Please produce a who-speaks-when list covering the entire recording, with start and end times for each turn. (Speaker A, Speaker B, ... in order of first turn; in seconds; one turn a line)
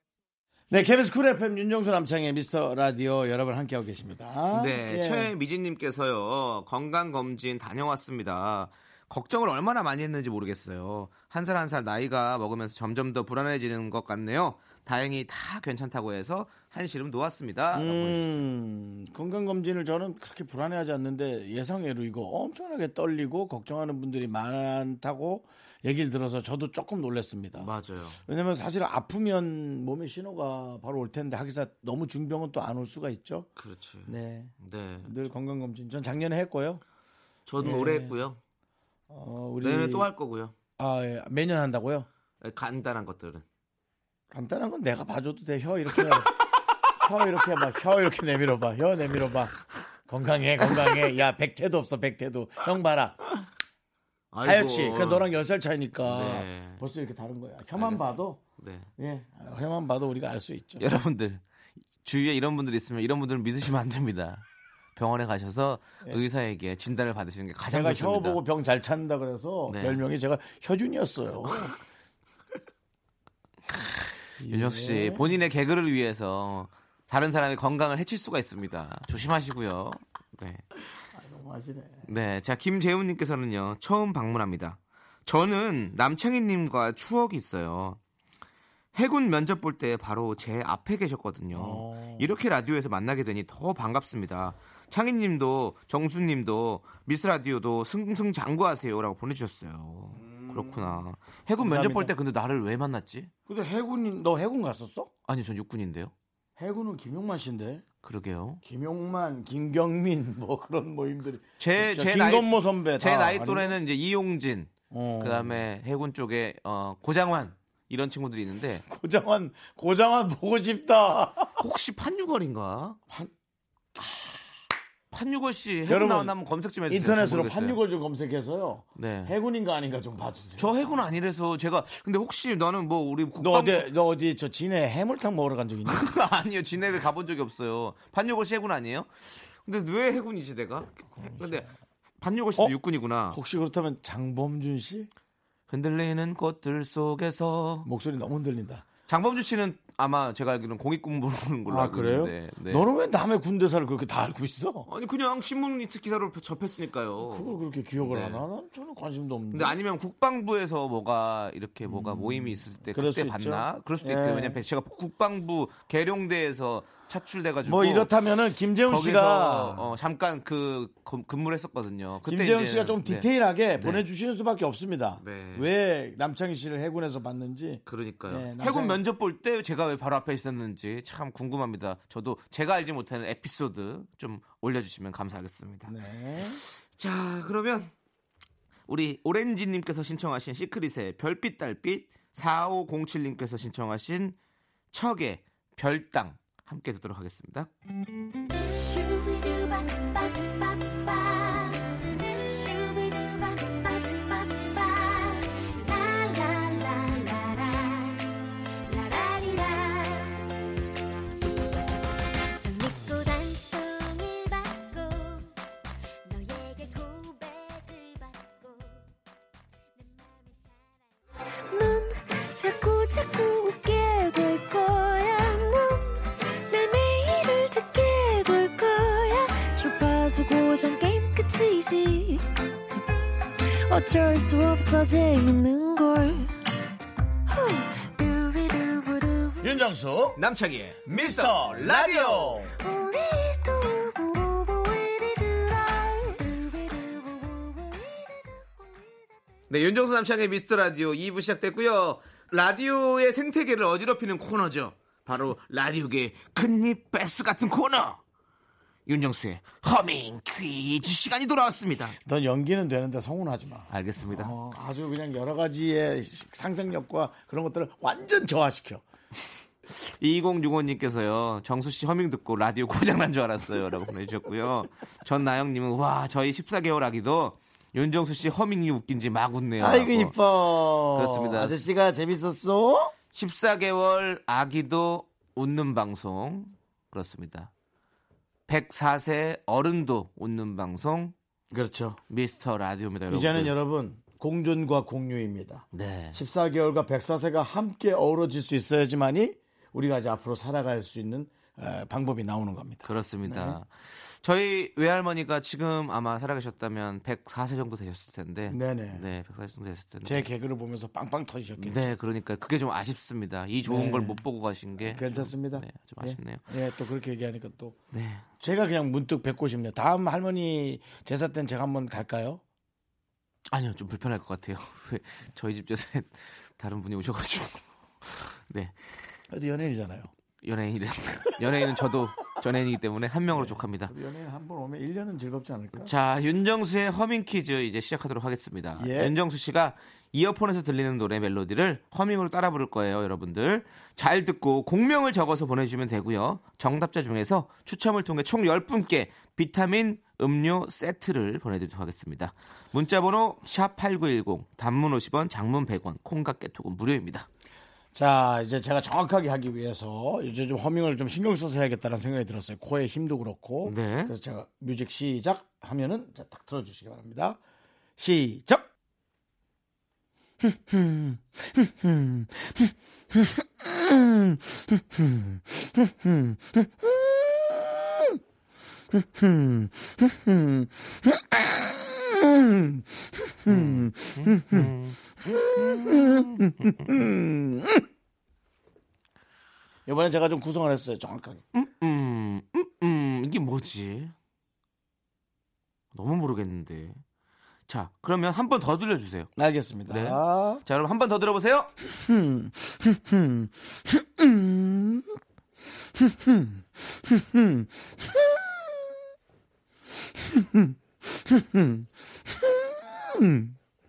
Speaker A: 0.7-5.3
Speaker B: 4.5-18.4
Speaker A: 17.7-27.7
Speaker B: 27.5-28.2
Speaker A: 28.2-33.5
Speaker B: 33.6-35.1
Speaker A: 34.0-36.8
Speaker B: 37.5-38.4
Speaker A: 37.6-38.1
Speaker A: 39.1-40.1
Speaker B: 39.6-40.5
Speaker A: 40.8-42.1
Speaker B: 42.4-43.4
Speaker A: 44.3-46.4
Speaker A: 46.9-53.2
Speaker B: 54.3-55.2
Speaker A: 54.4-58.4
Speaker B: 56.0-56.8
Speaker B: 57.8-58.9
Speaker A: 59.0-60.9
Speaker B: 60.8-61.4
Speaker B: 62.0-64.4
Speaker B: 65.0-68.4
Speaker A: 67.7-71.7
Speaker B: 69.7-70.0
Speaker A: 74.4-75.3
Speaker B: 74.5-80.6
Speaker A: 81.1-82.1
Speaker B: 82.0-88.0
Speaker B: 88.9-103.3
Speaker A: 91.5-92.3
Speaker A: 100.1-101.0
Speaker A: 101.6-102.1
Speaker A: 103.5-105.1
Speaker B: 105.3-106.1
Speaker A: 106.6-107.8
Speaker B: 108.0-108.6
Speaker A: 108.6-113.8
Speaker B: 111.6-118.8
Speaker A: 114.9-115.6
Speaker A: 118.9-121.6
Speaker B: 121.6-123.0
Speaker A: 124.0-124.4
Speaker B: 125.1-127.8
Speaker A: 125.9-126.3
Speaker A: 126.9-131.0
Speaker B: 128.9-129.3
Speaker B: 130.6-133.9
Speaker A: 133.4-136.1
Speaker B: 135.9-141.7
Speaker A: 141.1-141.7
Speaker B: 142.2-143.4
Speaker A: 143.3-145.1
Speaker B: 145.7-147.9
Speaker A: 147.8-148.8
Speaker B: 149.1-152.8
Speaker A: 151.7-154.9
Speaker B: 154.9-158.4
Speaker A: 157.2-159.8
Speaker B: 159.5-168.1
Speaker A: 161.8-164.6
Speaker A: 167.6-169.9
Speaker B: 168.8-174.0
Speaker A: 172.2-179.0
Speaker B: 175.2-175.7
Speaker B: 177.8-185.9
Speaker A: 185.9-186.6
Speaker B: 186.6-187.9
Speaker B: 188.9-194.4
Speaker B: 194.9-197.7
Speaker C: 198.6-208.3
Speaker C: 208.9-210.4
Speaker C: 212.6-215.5
Speaker C: 216.2-219.1
Speaker C: 220.0-221.0
Speaker D: 221.7-233.0
Speaker D: 233.9-236.5
Speaker D: 237.5-239.7
Speaker A: 239.6-240.4
Speaker B: 240.3-242.6
Speaker A: 241.1-242.7
Speaker D: 242.8-249.0
Speaker B: 249.7-258.2
Speaker B: 259.1-262.1
Speaker A: 262.1-269.0
Speaker B: 263.9-264.5
Speaker B: 269.9-280.3
Speaker A: 279.8-283.1
Speaker B: 281.1-281.8
Speaker B: 283.3-287.7
Speaker B: 288.7-291.3
Speaker A: 291.7-292.2
Speaker B: 292.3-293.7
Speaker A: 293.3-303.8
Speaker B: 295.9-296.4
Speaker B: 303.0-310.5
Speaker A: 308.7-309.2
Speaker A: 310.2-312.1
Speaker B: 311.8-316.6
Speaker A: 313.9-314.4
Speaker A: 315.0-318.0
Speaker B: 318.1-318.4
Speaker A: 318.6-322.6
Speaker B: 323.7-329.1
Speaker A: 329.5-330.3
Speaker B: 330.6-334.1
Speaker A: 333.5-336.1
Speaker B: 335.9-357.5
Speaker A: 339.0-339.3
Speaker A: 358.1-367.6
Speaker B: 363.8-364.3
Speaker A: 368.2-368.9
Speaker A: 370.6-378.4
Speaker A: 379.1-384.9
Speaker B: 383.7-387.2
Speaker A: 385.4-388.1
Speaker A: 390.1-391.6
Speaker B: 391.7-394.3
Speaker B: 396.1-397.2
Speaker B: 397.9-399.5
Speaker A: 399.6-400.8
Speaker B: 400.1-401.9
Speaker A: 402.0-405.4
Speaker A: 406.1-408.9
Speaker A: 410.4-413.8